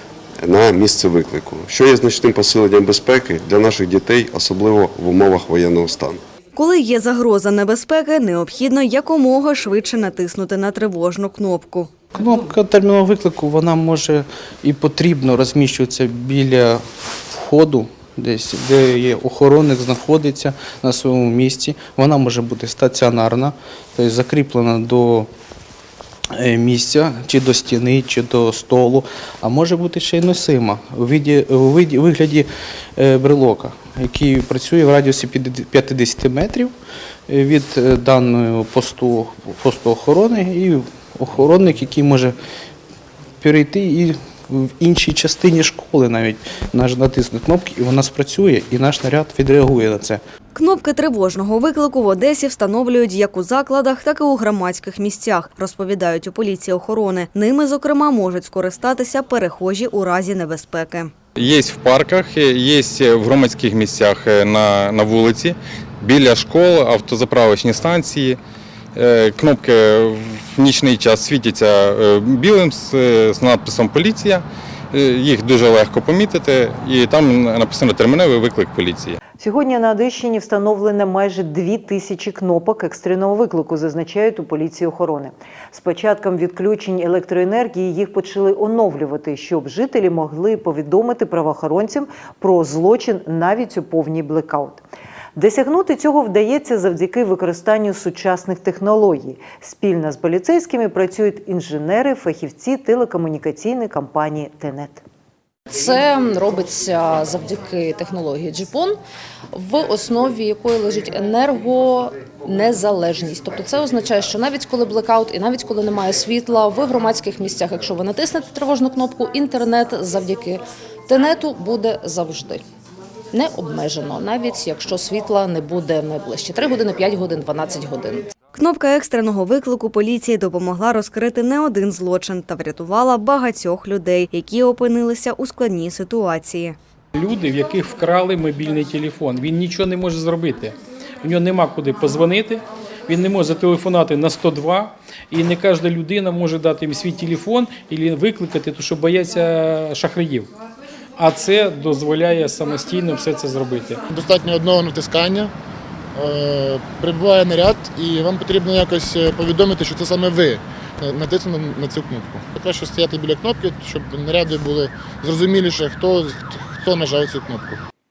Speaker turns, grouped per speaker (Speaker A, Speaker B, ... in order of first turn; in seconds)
Speaker A: 0.4-6.2
Speaker B: 6.5-12.0, 50.5-61.1, 128.5-136.8
Speaker C: 12.1-25.3, 26.3-36.7, 37.3-42.3, 43.4-50.2
Speaker D: 61.4-68.4, 68.9-79.2
Speaker E: 79.4-94.8, 95.3-105.0
Speaker F: 105.7-109.0, 109.5-122.6, 123.3-128.3
Speaker G: 137.1-150.5, 151.2-154.0
Speaker H: 154.1-155.5, 156.1-167.8